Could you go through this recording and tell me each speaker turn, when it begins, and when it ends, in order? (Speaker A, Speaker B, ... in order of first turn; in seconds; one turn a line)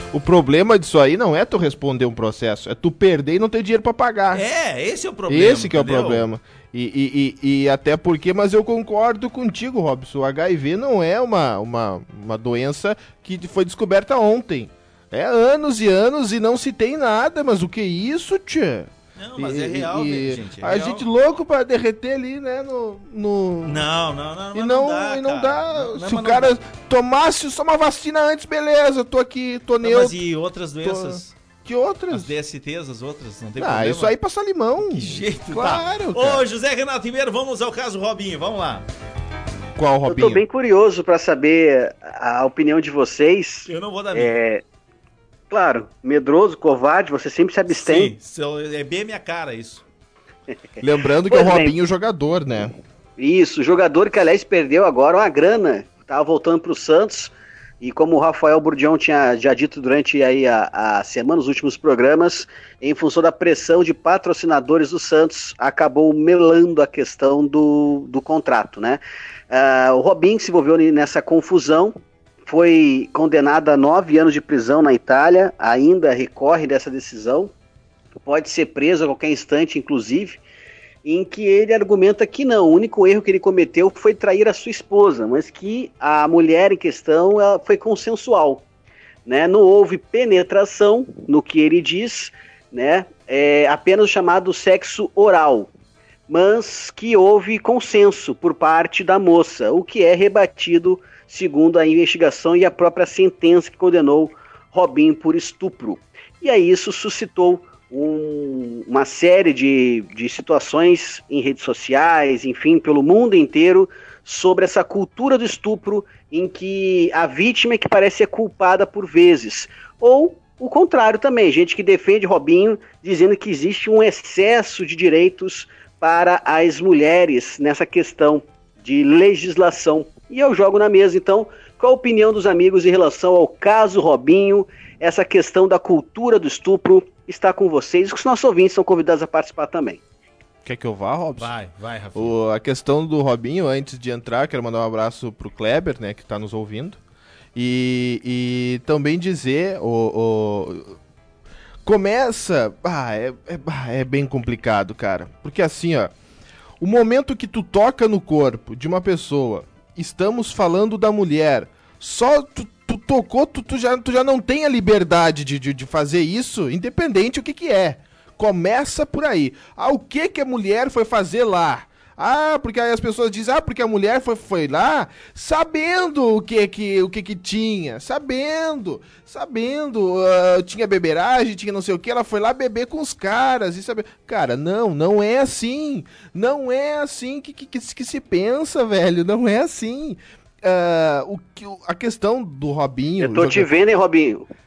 Speaker A: 0.1-4.4
Speaker B: 4.3-6.3
Speaker A: 5.3-23.8
Speaker B: 19.2-21.1
Speaker B: 23.6-26.6
Speaker A: 24.5-30.1
Speaker B: 29.8-31.4
Speaker A: 30.8-32.3
Speaker B: 32.1-34.1
Speaker A: 33.6-36.4
Speaker B: 34.8-38.9
Speaker A: 39.8-40.4
Speaker C: 40.1-44.6
Speaker B: 43.7-44.3
Speaker C: 45.5-48.1
Speaker B: 47.7-49.8
Speaker A: 50.8-52.7
Speaker C: 51.3-51.7
Speaker C: 53.2-71.9
Speaker C: 72.5-77.5
Speaker C: 78.3-80.4
Speaker C: 81.0-88.6
Speaker C: 89.3-95.7
Speaker C: 96.3-140.0
Speaker A: 140.7-141.5
Speaker B: 141.4-142.3
Speaker A: 142.2-147.0
Speaker A: 147.6-151.0
Speaker A: 151.8-156.1
Speaker A: 156.8-193.7
Speaker C: 193.2-194.5